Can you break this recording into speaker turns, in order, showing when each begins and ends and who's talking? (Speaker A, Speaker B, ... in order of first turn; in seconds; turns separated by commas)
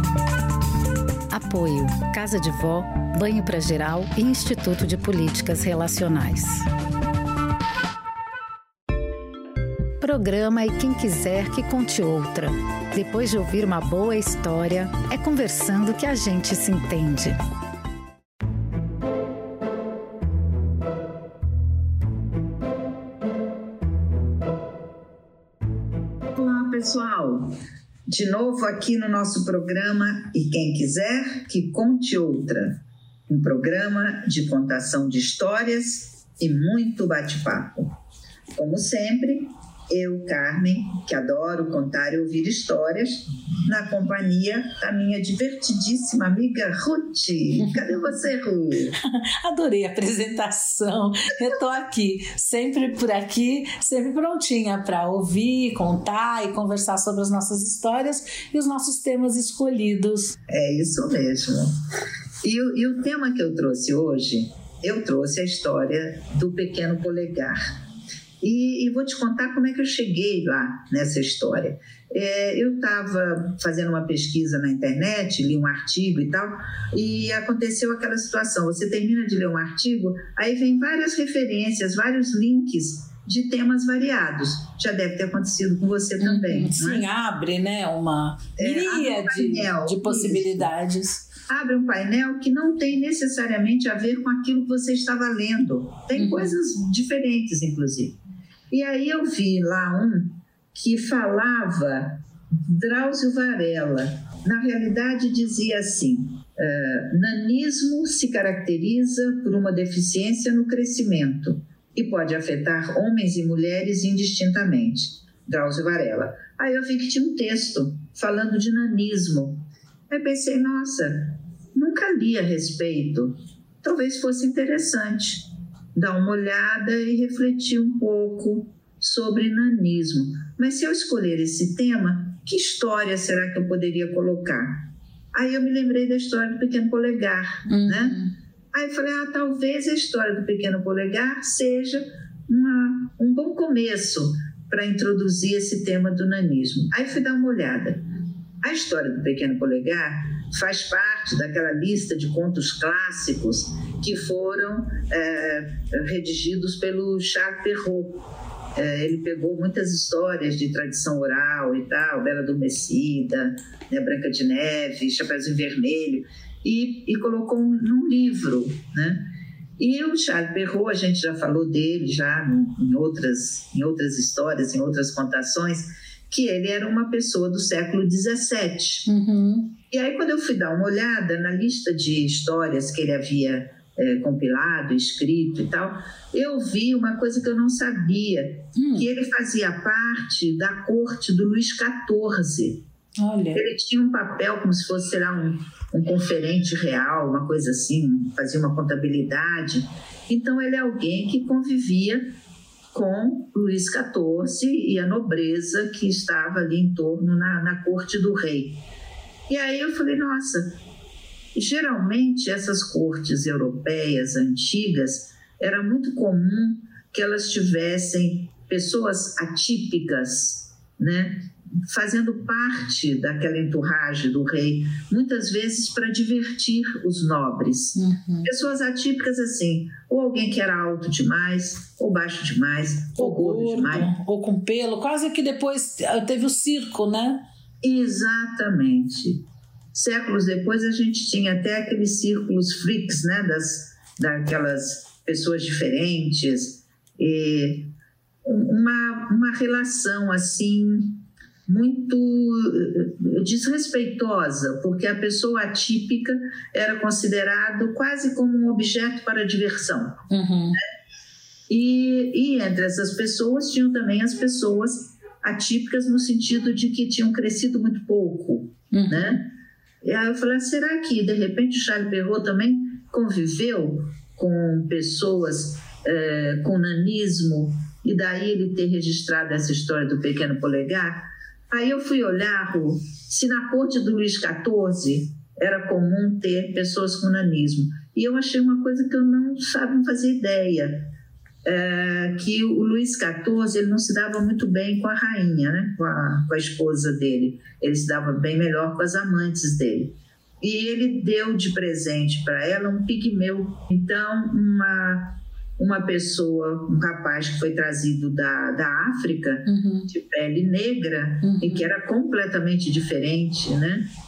Speaker A: 1.3-6.7, Speaker A: 10.0-17.4, Speaker B: 26.3-27.5, Speaker B: 28.1-38.0, Speaker B: 38.5-49.0, Speaker C: 47.6-48.0, Speaker C: 49.4-60.3, Speaker B: 60.5-61.7, Speaker B: 62.4-67.6, Speaker B: 68.4-87.0, Speaker C: 86.2-91.3, Speaker B: 88.6-90.7, Speaker B: 91.5-98.2, Speaker C: 96.2-96.5, Speaker B: 98.7-148.0, Speaker C: 137.7-138.3, Speaker B: 148.6-158.2, Speaker B: 158.7-169.2, Speaker B: 169.8-179.1, Speaker C: 179.1-179.7, Speaker B: 179.9-192.8, Speaker C: 188.8-189.1, Speaker C: 193.2-193.6, Speaker B: 193.5-202.2, Speaker B: 202.9-208.8, Speaker B: 209.5-210.8, Speaker B: 211.5-234.1, Speaker C: 227.9-228.5, Speaker C: 233.2-237.4, Speaker B: 237.8-247.9, Speaker B: 248.4-260.2, Speaker C: 260.3-260.8, Speaker B: 261.7-269.5, Speaker C: 268.9-269.4, Speaker B: 270.0-291.1, Speaker B: 291.6-314.1, Speaker C: 309.6-310.1, Speaker C: 311.4-311.9